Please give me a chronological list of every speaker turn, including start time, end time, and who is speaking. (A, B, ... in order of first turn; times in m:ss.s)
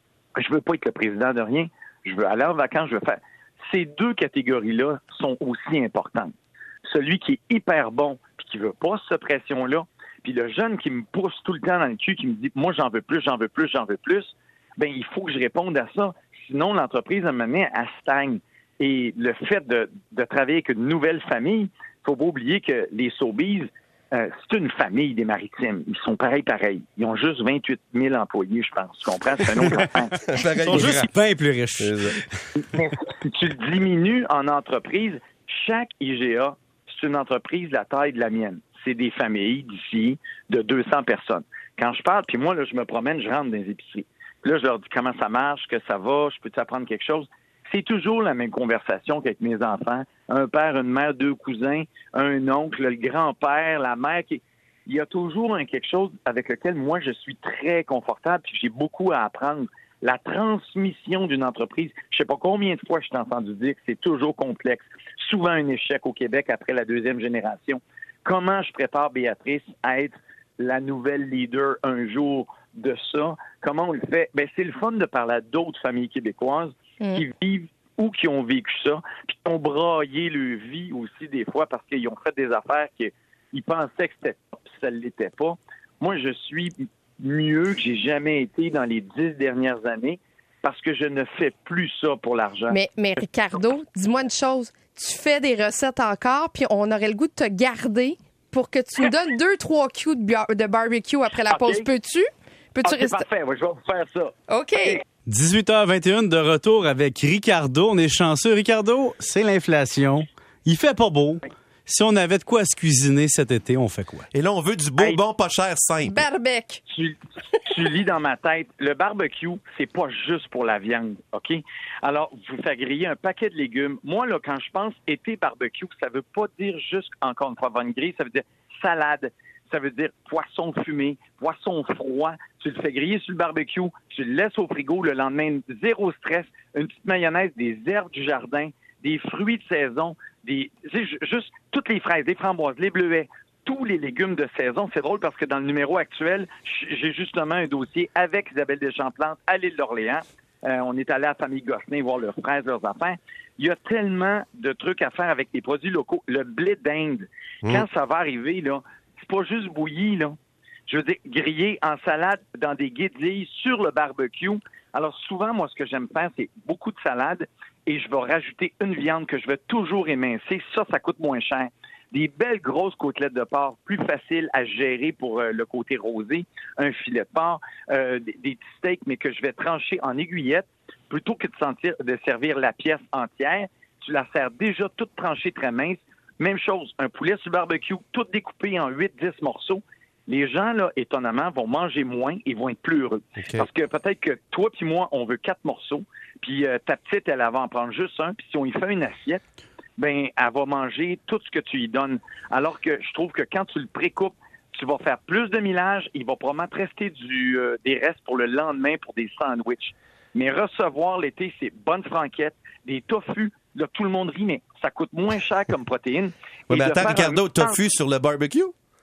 0:00.4-0:06.3 A
0:06.8-0:30.2 A
0:30.2-0:31.1 B
0:30.6-0:32.2 C
0:31.8-0:32.1 B
0:32.7-1:32.8 A
1:32.7-1:43.2 D
1:41.5-1:41.9 A
1:42.8-1:44.3 A
1:44.5-1:45.0 D
1:45.3-1:54.3 C
1:54.3-1:56.2 B
1:56.0-1:56.8 D
1:56.9-2:40.3 A
2:40.9-3:19.4 A
3:20.0-3:37.8 A
3:36.7-3:38.7 B